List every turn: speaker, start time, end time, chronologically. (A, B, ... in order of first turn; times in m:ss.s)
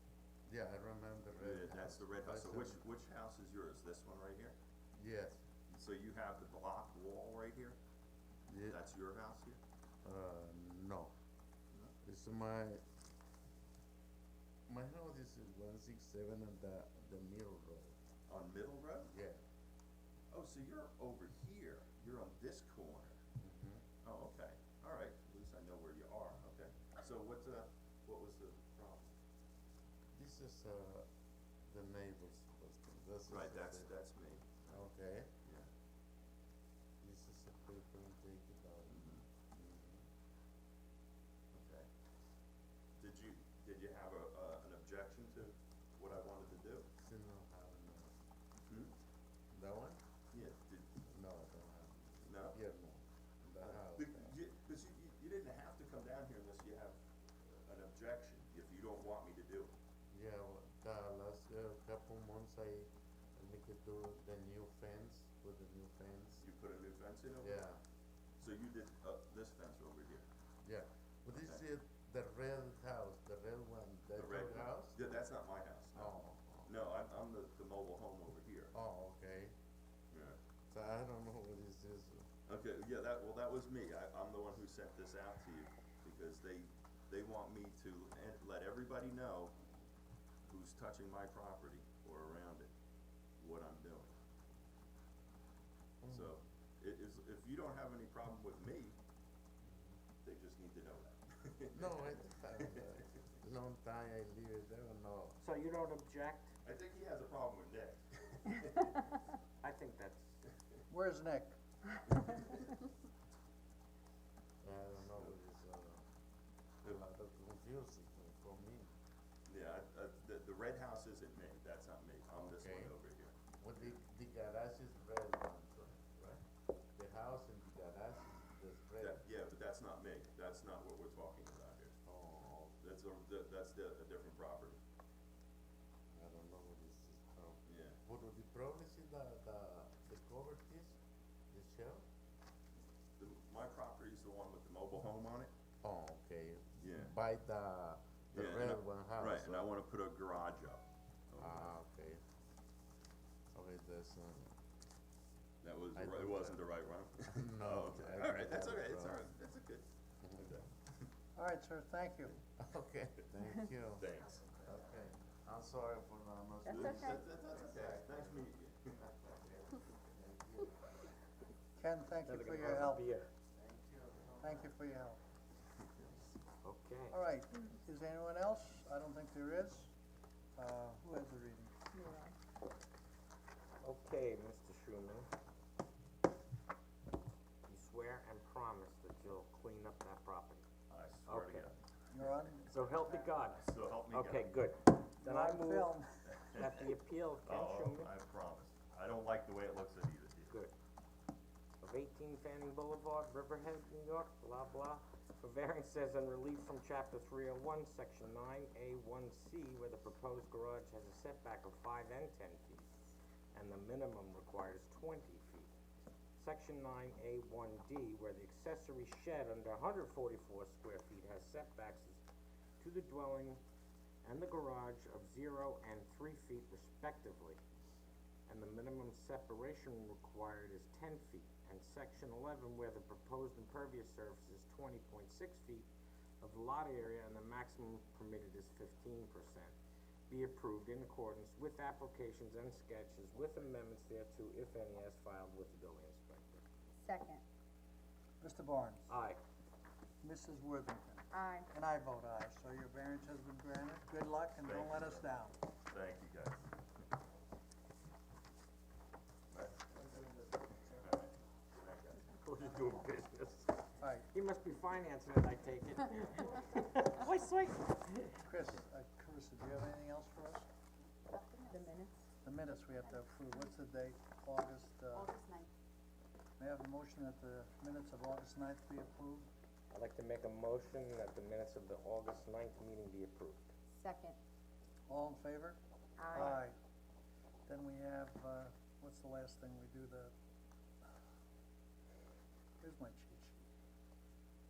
0:00.5-0:02.8 A
0:01.3-0:04.6 B
0:05.0-0:05.4 A
0:05.7-0:07.8 B
0:08.5-0:08.8 A
0:08.7-0:09.6 B
0:10.0-0:11.1 A
0:12.0-0:12.8 A
0:14.7-0:18.0 A
0:18.3-0:19.1 B
0:19.0-0:19.4 A
0:20.3-0:23.2 B
0:23.4-0:23.8 A
0:24.0-0:29.1 B
0:30.1-0:31.1 A
0:31.7-0:33.9 A
0:33.3-0:34.9 B
0:34.7-0:35.3 A
0:35.4-0:35.7 B
0:37.0-0:40.0 A
0:38.9-0:39.2 B
0:41.5-0:41.9 B
0:43.0-0:46.9 B
0:47.0-0:48.1 A
0:48.6-0:48.9 B
0:49.5-0:50.0 A
0:50.3-0:51.0 B
0:51.0-0:54.4 A
0:52.2-0:52.6 B
0:53.6-0:59.7 B
1:00.1-1:06.4 A
1:06.4-1:07.6 B
1:07.4-1:07.8 A
1:08.4-1:10.3 B
1:10.6-1:15.2 A
1:14.2-1:18.7 B
1:15.9-1:16.8 A
1:18.7-1:19.5 A
1:20.1-1:20.4 B
1:20.7-1:22.3 A
1:22.4-1:29.6 B
1:30.4-1:32.7 B
1:33.4-1:34.2 B
1:36.0-1:36.3 A
1:36.1-1:39.0 B
1:39.6-1:40.0 A
1:40.2-1:43.1 B
1:41.7-1:45.4 A
1:45.4-1:46.5 C
1:46.6-1:49.2 B
1:49.6-1:50.4 C
1:50.9-1:51.6 D
1:52.1-1:52.7 B
1:54.6-1:56.0 A
1:56.8-1:58.9 A
1:59.5-2:04.0 B
2:02.4-2:03.0 A
2:03.6-2:06.4 A
2:06.9-2:09.2 A
2:09.0-2:12.0 B
2:12.0-2:12.8 A
2:12.8-2:14.8 B
2:16.1-2:21.0 A
2:17.6-2:18.0 B
2:21.5-2:22.0 A
2:23.2-2:25.5 B
2:25.8-2:29.7 A
2:26.8-2:27.1 B
2:28.3-2:31.7 B
2:31.4-2:32.2 A
2:33.5-2:34.5 A
2:35.6-2:41.0 B
2:35.9-2:36.7 A
2:37.2-2:39.3 A
2:40.2-2:40.5 A
2:41.3-2:42.3 D
2:42.6-2:51.1 A
2:44.0-2:44.4 B
2:46.7-2:49.0 B
2:46.7-2:47.1 E
2:51.8-2:53.1 D
2:52.2-2:53.3 C
2:53.5-2:54.7 A
2:54.4-2:55.2 D
2:56.6-2:57.2 C
2:57.1-2:59.9 D
3:00.6-3:01.7 D
3:01.9-3:02.3 E
3:03.8-3:05.3 C
3:07.7-3:10.6 C
3:10.9-3:14.6 B
3:11.2-3:11.7 C
3:12.1-3:13.3 D
3:12.7-3:18.1 C
3:15.2-3:16.2 D
3:16.2-3:20.6 B
3:21.8-3:32.9 C
3:33.5-3:35.7 C
3:36.4-3:42.2 C
3:42.8-3:43.6 C
3:44.2-3:47.6 C
3:48.5-3:55.9 C
3:56.4-3:59.7 C
4:00.3-4:06.6 C
4:07.0-4:07.4 E
4:08.4-4:09.1 D
4:09.1-4:09.4 C
4:10.2-4:15.5 D
4:11.3-4:11.7 E
4:14.6-4:15.3 B
4:15.9-4:16.7 B
4:19.5-4:22.7 B
4:22.4-4:23.7 C
4:24.0-4:24.2 D
4:24.2-4:28.5 C
4:28.4-4:30.7 D
4:31.2-4:32.2 E
4:32.4-4:35.3 D
4:32.9-4:33.2 E
4:35.1-4:35.7 E
4:36.6-4:39.5 D
4:39.9-4:43.7 C
4:43.9-4:44.4 E
4:45.1-4:46.8 D
4:46.2-4:46.6 E
4:47.6-4:50.3 D
4:52.8-4:53.6 D